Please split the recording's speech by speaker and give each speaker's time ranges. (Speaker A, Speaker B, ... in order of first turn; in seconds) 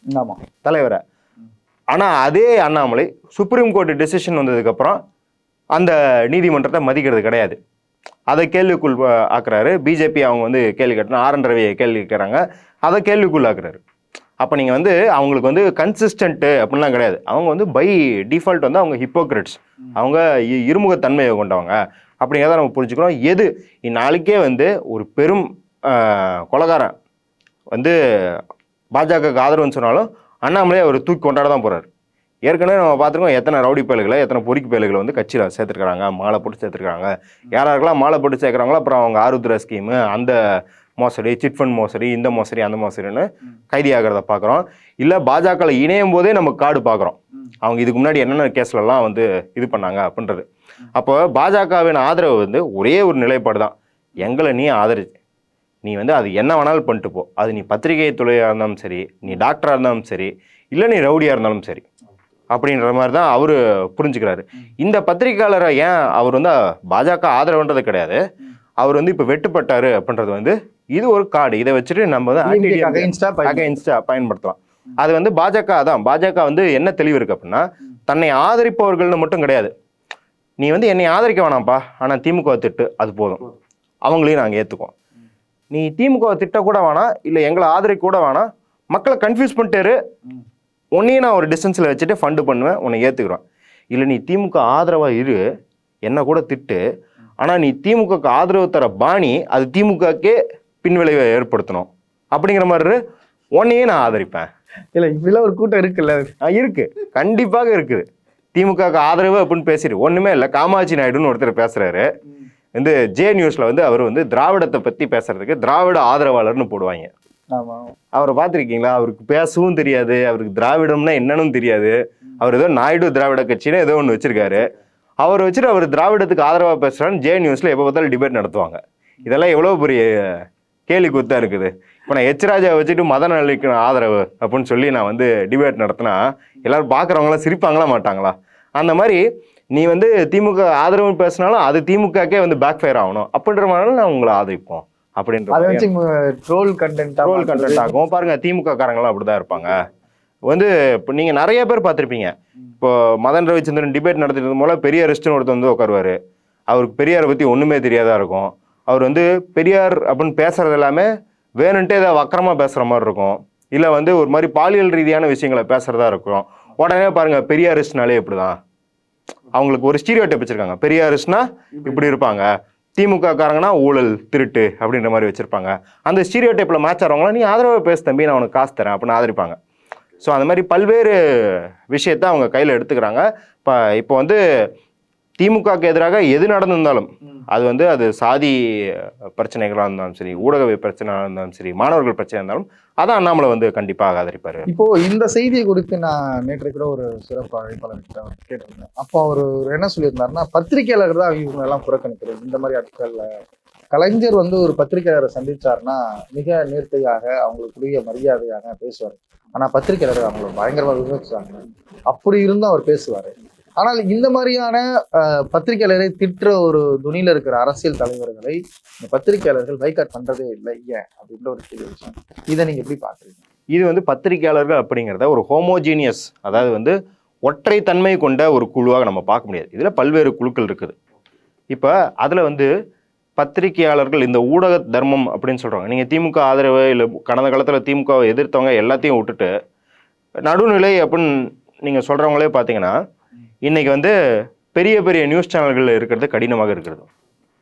Speaker A: 0.1-0.4, 72.4-73.7, 104.9-106.3, 117.5-118.0, 145.5-147.9, 194.7-203.3, 203.9-223.4
Speaker B: 0.6-1.0, 1.9-5.0, 5.8-7.6, 8.3-13.8, 14.4-26.9, 27.7-28.4, 28.9-31.9, 32.5-40.4, 41.0-50.5, 51.0-55.1, 55.8-61.9, 62.5-68.2, 68.8-79.7, 80.6-83.4, 84.0-84.9, 85.7-90.0, 91.0-95.4, 96.0-96.8, 97.4-103.0, 103.5-104.5, 106.4-112.1, 112.8-117.1, 118.1-124.7, 125.2-145.9, 147.2-149.8, 150.5-156.2, 156.7-161.1, 161.6-168.6, 169.5-179.6, 180.2-184.4, 185.4-194.7, 223.7-230.9, 231.7-232.7, 233.4-239.5, 240.5-241.3, 241.8-243.0, 243.6-244.1, 244.7-247.1